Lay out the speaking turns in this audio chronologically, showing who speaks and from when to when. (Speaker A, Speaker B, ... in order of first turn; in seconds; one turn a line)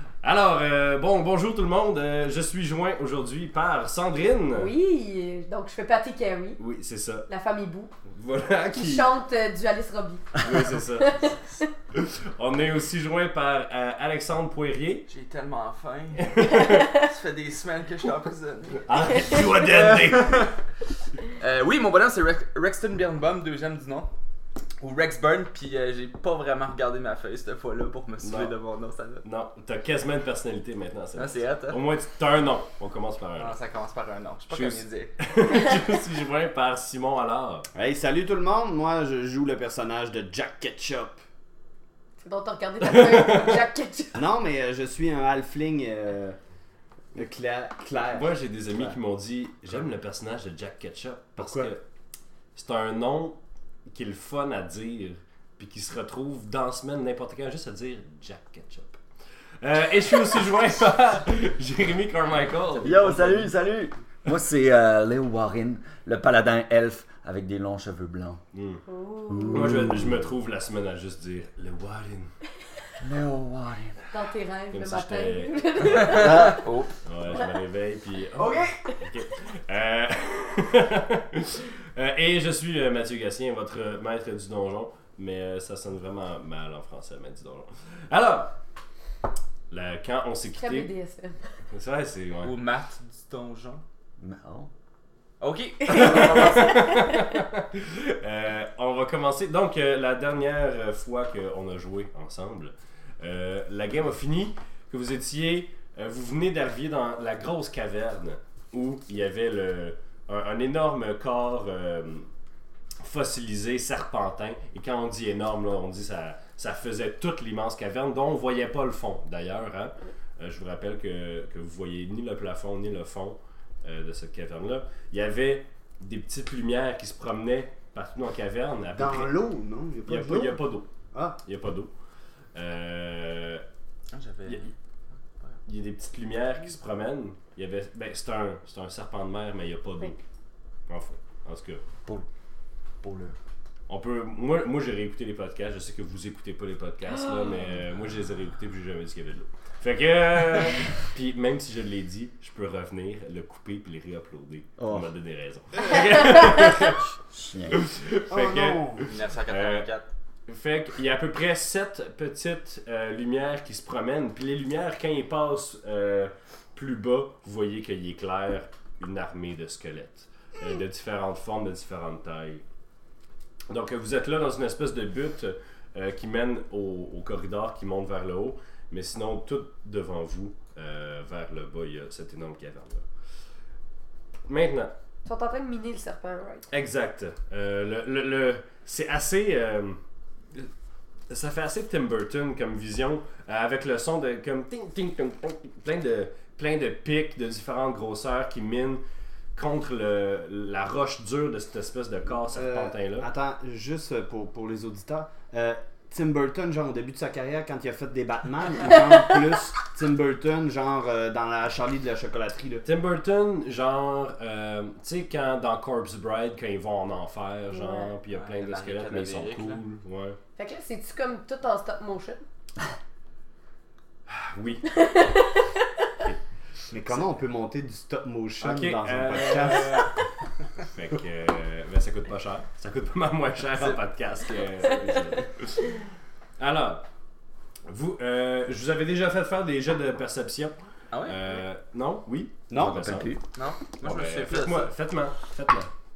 Speaker A: 0.2-4.7
Speaker B: 4.5-6.6
Speaker A: 6.6-7.3
Speaker B: 7.3-7.9
Speaker A: 8.1-9.1
Speaker B: 8.7-10.4
Speaker A: 10.4-11.4
Speaker B: 10.9-11.6
Speaker A: 11.9-15.1
Speaker C: 15.1-20.5
Speaker A: 16.2-16.9
Speaker A: 18.9-20.5
Speaker C: 21.3-24.1
Speaker C: 24.8-29.2
Speaker A: 28.2-28.5
Speaker A: 29.2-33.6
Speaker C: 31.2-31.8
Speaker C: 33.4-35.1
Speaker A: 34.5-37.7
Speaker D: 37.7-41.2
Speaker B: 42.2-44.2
Speaker D: 44.1-46.4
Speaker D: 47.1-49.0
Speaker A: 48.1-51.8
Speaker D: 51.4-51.7
Speaker A: 52.5-59.0
Speaker A: 59.6-63.6
Speaker E: 62.8-68.4
Speaker A: 68.5-68.8
Speaker B: 68.9-69.6
Speaker E: 69.3-69.9
Speaker A: 69.5-72.3
Speaker E: 73.0-74.1
Speaker B: 74.1-76.7
Speaker A: 74.7-76.5
Speaker E: 76.2-76.6
Speaker C: 76.6-76.9
Speaker A: 77.0-88.5
Speaker A: 89.7-90.9
Speaker B: 90.6-91.6
Speaker A: 91.7-92.5
Speaker C: 92.4-93.8
Speaker E: 94.2-94.7
Speaker C: 95.4-96.8
Speaker A: 95.9-112.3
Speaker B: 96.0-97.1
Speaker A: 113.0-129.3
Speaker D: 128.9-131.4
Speaker A: 130.1-130.9
Speaker A: 131.4-131.9
Speaker A: 132.5-133.6
Speaker C: 134.1-134.7
Speaker A: 135.7-140.2
Speaker A: 140.9-141.8
Speaker E: 143.0-143.3
Speaker A: 143.9-157.1
Speaker E: 154.8-155.1
Speaker E: 157.3-157.8
Speaker A: 157.7-159.9
Speaker D: 158.3-159.1
Speaker C: 159.1-160.1
Speaker A: 160.5-172.6
Speaker A: 173.7-183.1
Speaker A: 184.5-184.9
Speaker B: 185.2-186.7
Speaker A: 186.7-190.0
Speaker A: 191.3-199.0
Speaker A: 199.6-203.3
Speaker D: 202.5-212.9
Speaker A: 212.8-220.4
Speaker B: 217.7-218.1
Speaker C: 218.3-219.8
Speaker B: 220.6-222.4
Speaker A: 224.3-225.3
Speaker B: 224.9-225.8
Speaker D: 226.9-230.1
Speaker A: 228.6-230.1
Speaker A: 230.8-236.0
Speaker C: 233.7-234.7
Speaker A: 236.6-237.1
Speaker A: 237.9-243.4
Speaker C: 241.1-241.6
Speaker D: 242.7-243.2
Speaker E: 242.8-243.4
Speaker C: 243.5-244.9
Speaker A: 244.0-245.9